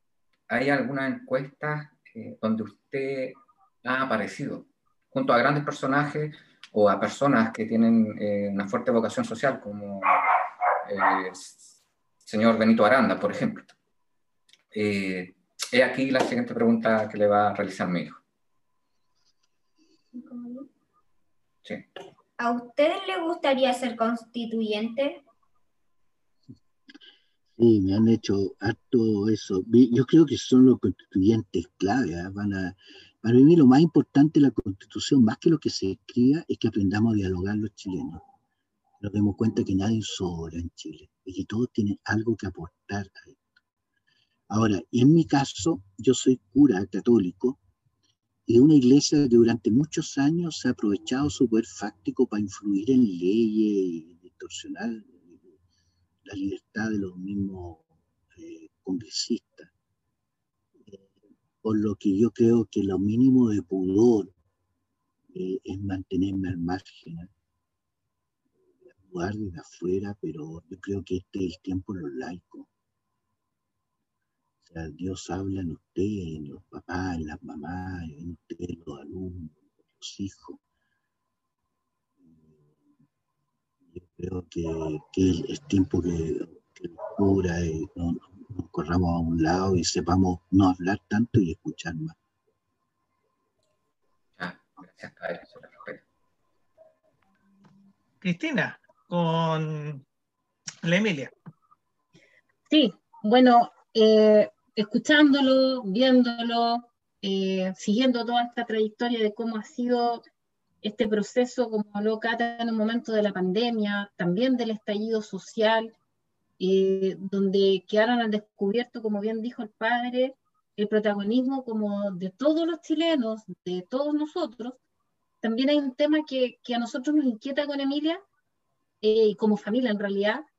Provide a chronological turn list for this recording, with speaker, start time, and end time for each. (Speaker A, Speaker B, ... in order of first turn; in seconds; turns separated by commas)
Speaker A: 0.5-13.7, Speaker A: 14.7-18.2, Speaker B: 20.2-20.5, Speaker B: 22.4-25.2, Speaker C: 27.6-38.2, Speaker C: 39.0-43.4, Speaker C: 44.5-47.6, Speaker C: 48.5-55.5, Speaker C: 56.2-59.7, Speaker C: 60.9-61.1, Speaker C: 61.6-64.3, Speaker C: 65.3-67.3, Speaker C: 69.0-72.7, Speaker C: 74.6-80.6, Speaker C: 82.2-82.6, Speaker C: 83.9-92.2, Speaker A: 94.4-96.0, Speaker D: 98.2-100.0, Speaker D: 100.8-101.3, Speaker E: 102.7-110.2, Speaker E: 110.8-115.9, Speaker E: 116.6-124.8, Speaker E: 125.4-128.2, Speaker E: 129.0-130.4